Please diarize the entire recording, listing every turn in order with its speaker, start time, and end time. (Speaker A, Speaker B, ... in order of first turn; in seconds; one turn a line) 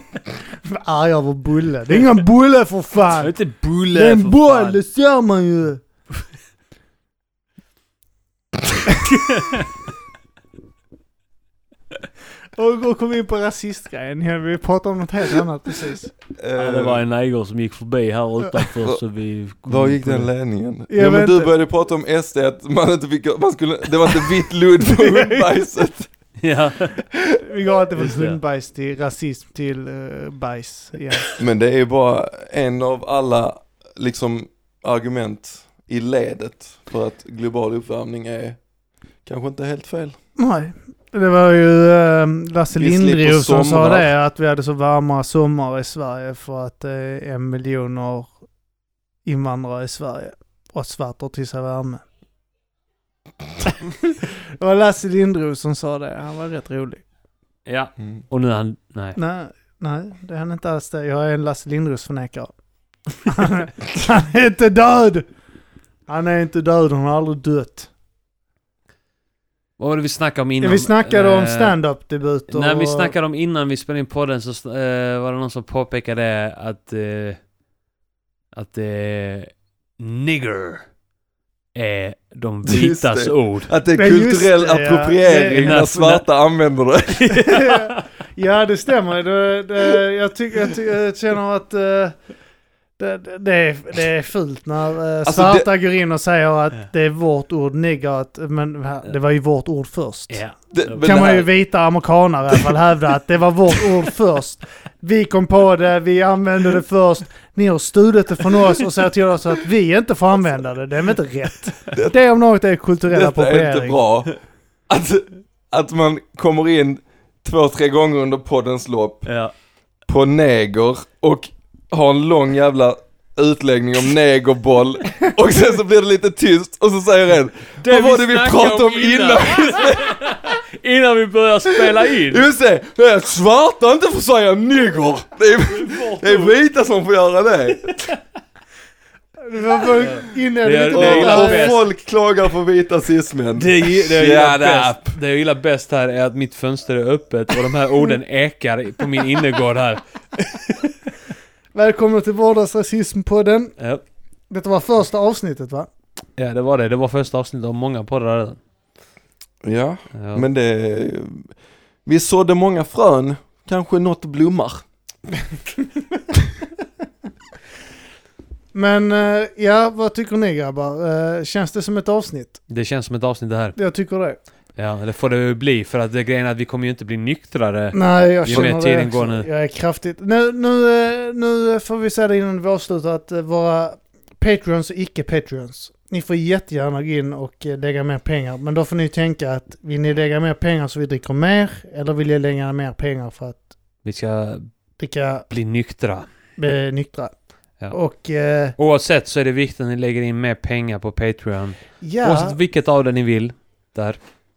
Speaker A: 0.6-3.4
Speaker B: 3.2-4.8
Speaker A: 3.9-5.9
Speaker B: 9.1-9.6
Speaker A: 12.6-16.2
Speaker C: 16.4-17.0
Speaker B: 16.6-20.3
Speaker C: 19.6-26.1
Speaker A: 20.9-21.5
Speaker A: 24.9-25.5
Speaker B: 26.4-27.0
Speaker A: 27.4-31.3
Speaker B: 28.0-28.4
Speaker C: 31.4-38.6
Speaker C: 39.2-40.2
Speaker A: 40.4-48.4
Speaker C: 42.7-44.1
Speaker A: 49.2-52.0
Speaker A: 54.6-57.0
Speaker B: 57.6-59.2
Speaker A: 59.1-65.3
Speaker A: 66.1-67.9
Speaker B: 69.8-71.8
Speaker A: 70.6-73.1
Speaker B: 72.5-77.4
Speaker B: 78.5-80.9
Speaker B: 81.7-83.7
Speaker C: 82.6-87.3
Speaker A: 84.0-85.8
Speaker B: 85.5-86.4
Speaker B: 87.1-88.0
Speaker A: 87.4-92.3
Speaker A: 93.0-114.0
Speaker C: 95.2-95.7
Speaker B: 100.3-101.5
Speaker C: 100.7-101.5
Speaker C: 113.1-119.3
Speaker B: 119.2-119.5
Speaker C: 120.0-130.3
Speaker B: 127.8-132.4
Speaker C: 132.2-138.2
Speaker B: 135.7-136.5
Speaker A: 139.4-141.8
Speaker B: 140.0-141.8
Speaker C: 140.9-145.2
Speaker B: 143.5-150.7
Speaker A: 151.7-155.9
Speaker B: 153.8-154.0
Speaker B: 156.3-158.6
Speaker C: 159.6-164.8
Speaker B: 160.1-160.4
Speaker A: 168.7-172.6
Speaker B: 172.7-173.8
Speaker A: 173.7-174.4
Speaker B: 174.7-179.5
Speaker A: 177.9-193.8
Speaker B: 194.0-194.7
Speaker A: 195.0-195.5
Speaker B: 195.5-196.3
Speaker A: 196.6-198.8
Speaker B: 198.8-204.3
Speaker A: 202.0-202.6